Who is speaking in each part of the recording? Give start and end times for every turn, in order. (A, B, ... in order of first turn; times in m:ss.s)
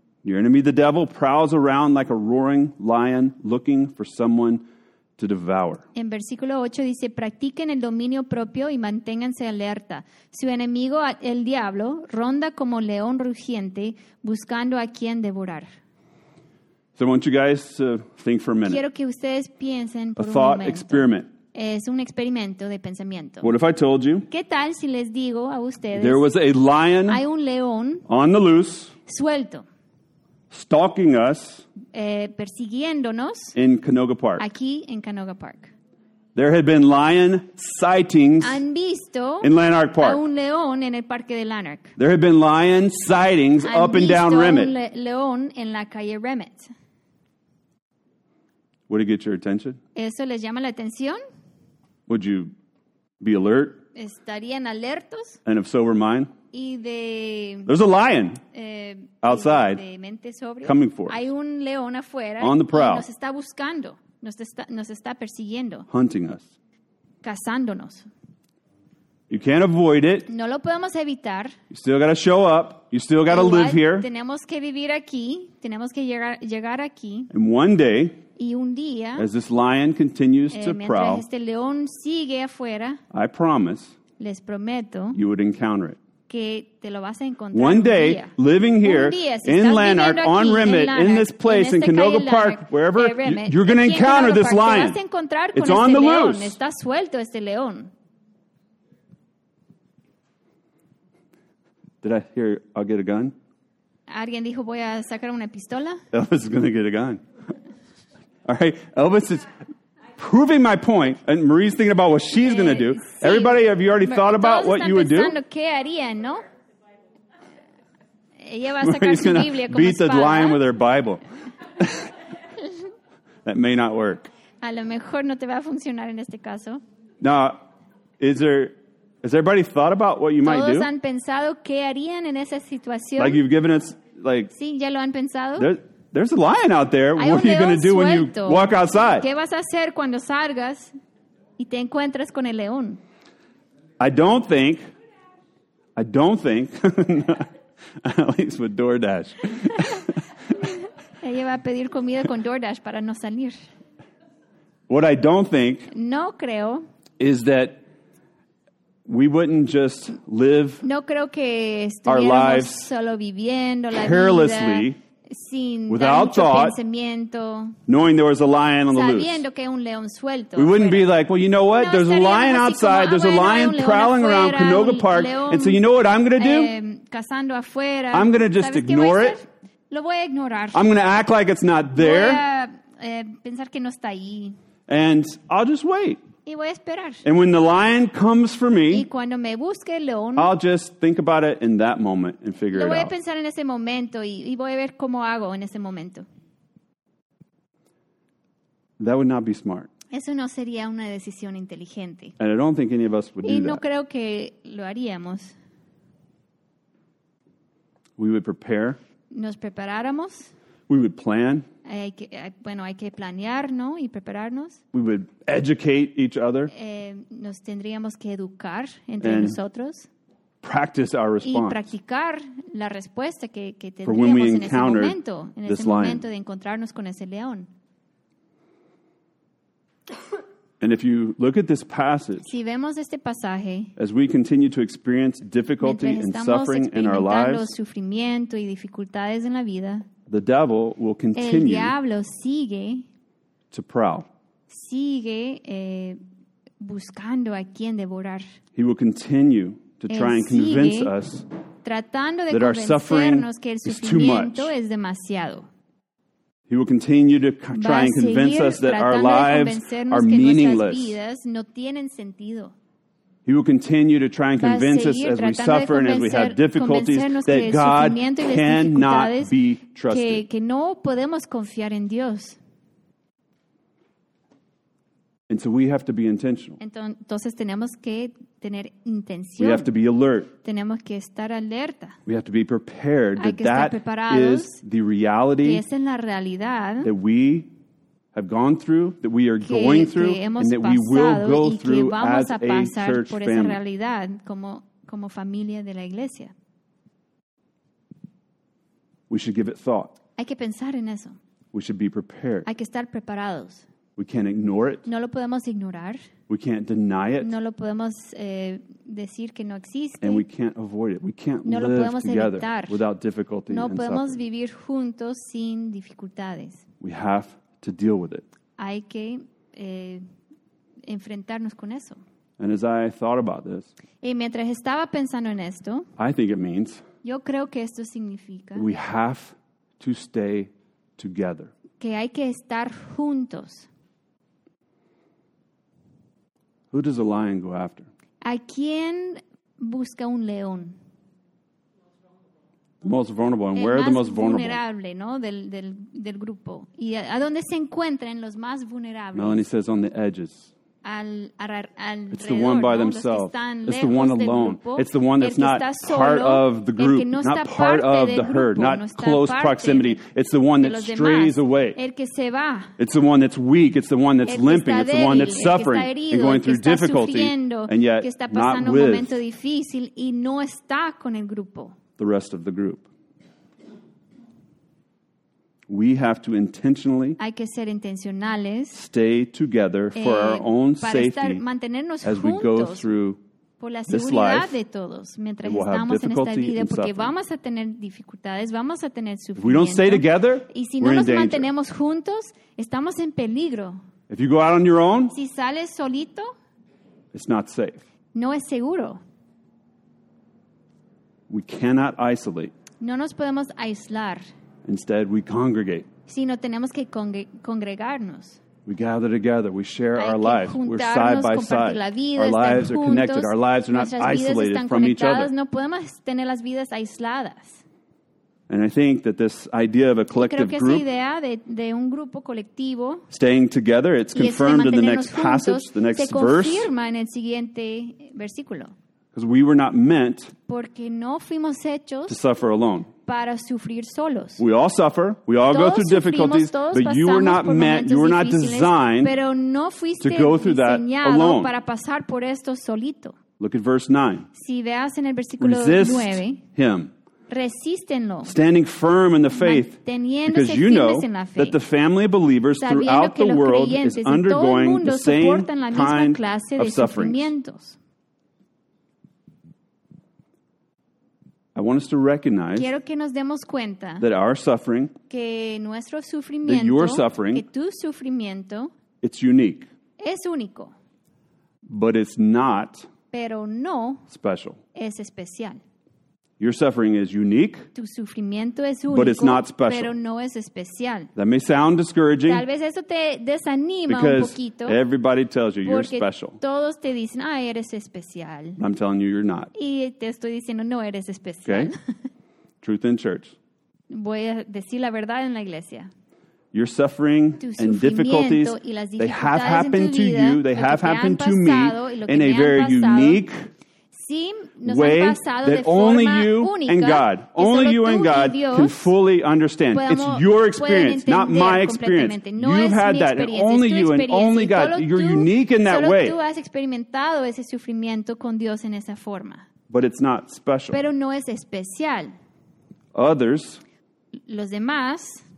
0:00.2-0:04.6 A
0:05.2-0:05.9 A
0:06.0-0:15.7 B
0:17.0-0:18.8 A
0:18.6-0:23.5 B
0:20.2-0:21.3 A
0:23.4-0:24.3 A
0:24.3-0:26.3 B
0:25.9-0:27.2 A
0:27.1-0:28.1 B
0:28.1-0:29.0 A
0:29.1-0:29.6 B
0:30.5-0:31.7 A
0:31.9-0:33.6 B
0:33.6-0:34.5 A
0:34.4-0:35.7 B
0:36.4-0:38.6 A
0:38.4-0:42.0 B
0:39.4-0:40.2 A
0:42.0-0:44.7 A
0:43.6-0:46.7 B
0:48.9-0:49.8 A
0:50.0-0:51.2 B
0:52.1-0:52.5 A
0:53.2-0:53.8 A
0:54.0-0:55.4 B
0:55.4-0:56.3 A
0:56.5-0:57.7 B
0:57.7-0:58.4 A
0:58.5-1:05.9 B
0:59.2-0:59.8 A
1:00.6-1:01.2 A
1:02.4-1:03.1 A
1:05.9-1:06.5 A
1:07.2-1:08.1 B
1:09.3-1:10.3 A
1:10.3-1:11.6 B
1:11.7-1:14.1 A
1:13.3-1:17.3 B
1:17.3-1:18.2 A
1:18.4-1:19.3 B
1:19.2-1:21.2 A
1:20.5-1:23.0 B
1:23.1-1:24.0 A
1:24.2-1:25.2 B
1:25.1-1:26.0 A
1:26.3-1:37.9 B
1:27.5-1:35.0 A
1:35.5-1:36.6 A
1:42.0-1:43.4 A
1:44.1-1:46.0 B
1:46.1-1:47.2 A
1:48.5-1:49.5 A
1:50.2-1:55.4 A
1:52.4-1:56.5 B
1:58.4-2:00.6 B
1:58.8-2:01.2 A
2:01.8-2:02.1 A
2:03.4-2:04.3 A
2:04.6-2:06.8 B
2:07.2-2:07.6 A
2:08.2-2:10.9 A
2:10.4-2:13.4 B
2:13.2-2:14.5 A
2:14.5-2:15.7 B
2:15.6-2:19.3 A
2:17.2-2:21.0 B
2:21.6-2:23.0 B
2:24.0-2:24.8 A
2:26.0-2:27.5 A
2:28.0-2:30.2 A
2:30.6-2:33.6 B
2:34.9-2:35.9 A
2:35.9-2:36.9 B
2:37.2-2:37.8 A
2:39.1-2:40.8 A
2:40.8-2:47.8 B
2:42.1-2:42.9 A
2:43.9-2:45.0 A
2:45.9-2:46.8 A
2:47.9-2:49.4 A
2:48.9-2:51.1 B
2:50.6-2:56.7 A
2:51.7-2:55.8 B
2:56.4-3:00.9 B
2:58.1-2:59.4 A
3:00.7-3:02.4 A
3:01.9-3:04.6 B
3:04.9-3:06.2 A
3:06.5-3:07.2 B
3:07.2-3:09.1 A
3:08.9-3:10.5 B
3:10.4-3:13.1 A
3:12.7-3:16.3 B
3:19.0-3:19.9 A
3:20.1-3:22.4 B
3:22.4-3:23.8 A
3:23.4-3:25.5 B
3:28.2-3:29.0 A
3:29.3-3:30.5 B
3:30.9-3:31.7 A
3:31.8-3:34.8 B
3:34.9-3:36.7 A
3:36.7-3:40.1 B
3:39.2-3:39.6 A
3:40.6-3:41.9 A
3:41.4-3:47.7 B
3:44.0-3:46.2 A
3:50.8-3:52.5 A
3:52.4-3:53.9 B
3:54.0-3:57.7 A
3:55.8-4:00.1 B
4:00.3-4:02.0 A
4:01.4-4:03.1 B
4:03.7-4:04.3 A
4:04.7-4:06.2 B
4:06.8-4:08.4 B
4:08.8-4:11.4 A
4:10.1-4:11.1 B
4:11.8-4:15.7 B
4:12.5-4:14.7 A
4:16.7-4:21.2 A
4:17.7-4:22.8 B
4:23.5-4:30.4 A
4:24.6-4:29.5 B
4:30.1-4:32.6 B
4:35.5-4:36.8 A
4:36.8-4:39.9 B
4:39.6-4:40.5 A
4:40.6-4:42.2 B
4:42.3-4:45.8 A
4:43.4-4:44.8 B
4:45.6-4:47.1 B
4:47.0-4:47.7 A
4:48.3-4:53.8 A
4:49.6-4:56.5 B
4:59.3-5:00.2 A
5:00.4-5:01.4 B
5:01.7-5:02.7 A
5:02.6-5:03.8 B
5:04.2-5:05.1 A
5:05.0-5:06.3 B
5:06.5-5:07.5 A
5:07.4-5:10.4 B
5:10.2-5:14.4 A
5:11.6-5:13.0 B
5:13.7-5:16.9 B
5:17.0-5:18.5 A
5:18.8-5:20.2 B
5:21.1-5:22.2 B
5:22.6-5:23.9 A
5:24.2-5:26.1 B
5:26.2-5:27.1 A
5:27.2-5:28.9 B
5:28.8-5:31.7 A
5:32.0-5:33.9 B
5:36.9-5:38.1 A
5:38.4-5:41.0 B
5:43.0-5:44.8 A
5:43.7-5:49.7 B
5:49.3-5:50.7 A
5:51.0-6:00.2 B
5:52.3-6:02.0 A
6:00.8-6:03.0 B
6:03.0-6:09.4 A
6:04.4-6:12.0 B
6:12.2-6:13.1 A
6:15.9-6:17.4 A
6:17.4-6:19.0 B
6:18.9-6:21.6 A
6:20.1-6:23.1 B
6:22.2-6:23.4 A
6:23.8-6:34.0 B
6:24.1-6:24.8 A
6:25.6-6:27.3 A
6:29.6-6:31.7 A
6:34.3-6:35.4 A
6:35.3-6:36.5 B
6:37.3-6:38.0 A
6:38.3-6:39.2 B
6:41.5-6:42.7 A
6:43.0-6:44.5 B
6:44.8-6:46.1 A
6:46.3-6:48.6 B
6:48.9-6:55.5 A
6:50.2-6:57.8 B
6:58.7-7:01.0 A
7:00.3-7:03.3 B
7:03.3-7:06.9 A
7:04.3-7:09.0 B
7:09.3-7:10.5 A
7:10.7-7:12.4 B
7:12.3-7:13.1 A
7:13.3-7:14.6 B
7:14.6-7:19.3 A
7:15.6-7:23.4 B
7:20.2-7:21.7 A
7:23.6-7:24.5 A
7:24.5-7:26.6 B
7:25.6-7:27.1 A
7:27.5-7:28.6 B
7:28.4-7:37.5 A
7:29.6-7:31.8 B
7:32.8-7:38.0 B
7:41.8-7:42.9 A
7:42.8-7:44.2 B
7:44.2-7:45.2 A
7:45.3-7:48.9 B
7:46.6-7:47.6 A
7:49.2-7:49.9 A
7:50.2-7:50.9 B
7:51.9-7:53.1 A
7:53.3-7:54.3 B
7:54.3-7:54.8 A
7:55.0-7:55.8 B
7:56.6-7:57.9 A
7:58.0-8:01.3 B
7:59.1-8:00.1 A
8:01.4-8:02.6 A
8:02.4-8:05.0 B
8:04.1-8:06.6 A
8:05.8-8:08.8 B
8:08.8-8:09.7 A
8:09.8-8:12.0 B
8:11.6-8:11.9 A
8:12.8-8:13.6 A
8:14.1-8:16.1 B
8:16.7-8:23.7 A
8:17.6-8:23.4 B
8:24.1-8:29.1 B
8:24.8-8:36.4 A
8:29.9-8:39.7 B
8:39.9-8:41.0 A
8:40.9-8:42.3 B
8:43.2-8:43.8 A
8:44.5-8:45.5 B